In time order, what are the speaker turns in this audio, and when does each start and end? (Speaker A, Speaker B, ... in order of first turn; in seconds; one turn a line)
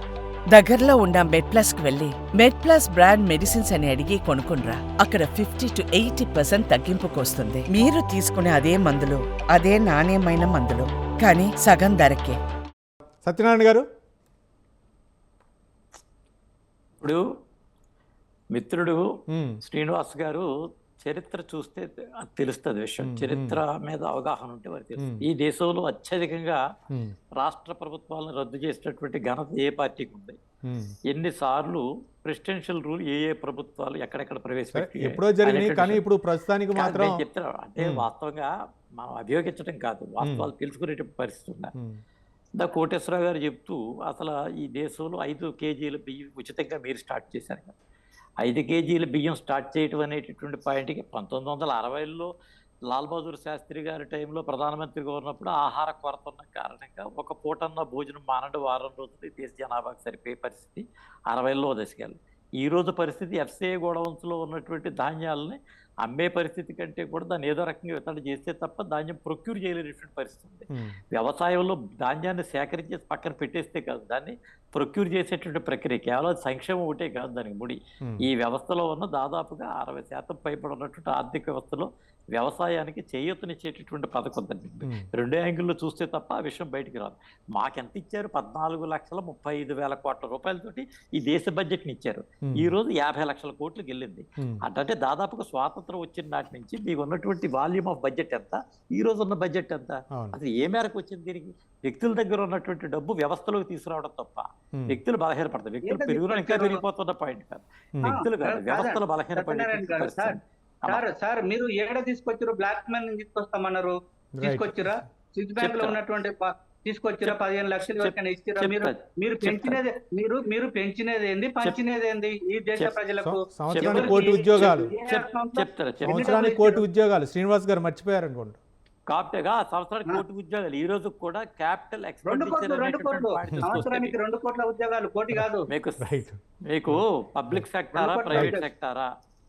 Speaker A: 0.5-12.4
Speaker B: 13.2-13.8
Speaker C: 18.5-19.1
Speaker B: 19.3-19.6
Speaker C: 19.6-26.6
Speaker B: 23.0-23.6
Speaker B: 25.0-25.3
Speaker C: 27.4-30.4
Speaker B: 30.6-30.9
Speaker C: 31.1-36.0
Speaker B: 34.7-37.2
Speaker C: 36.7-41.7
Speaker B: 37.8-38.0
Speaker B: 40.2-40.5
Speaker B: 41.8-42.0
Speaker C: 42.6-47.8
Speaker C: 48.4-52.3
Speaker C: 52.9-111.0
Speaker B: 70.7-71.0
Speaker B: 84.8-85.1
Speaker D: 105.8-106.8
Speaker B: 108.0-108.2
Speaker D: 108.0-126.8
Speaker B: 114.3-115.0
Speaker C: 115.6-116.0
Speaker C: 117.2-119.8
Speaker B: 123.2-124.9
Speaker C: 123.7-126.3
Speaker B: 126.0-128.6
Speaker C: 129.1-134.2
Speaker D: 132.2-135.7
Speaker B: 133.5-133.8
Speaker C: 135.7-136.1
Speaker B: 136.0-137.7
Speaker C: 136.7-139.1
Speaker D: 137.9-138.7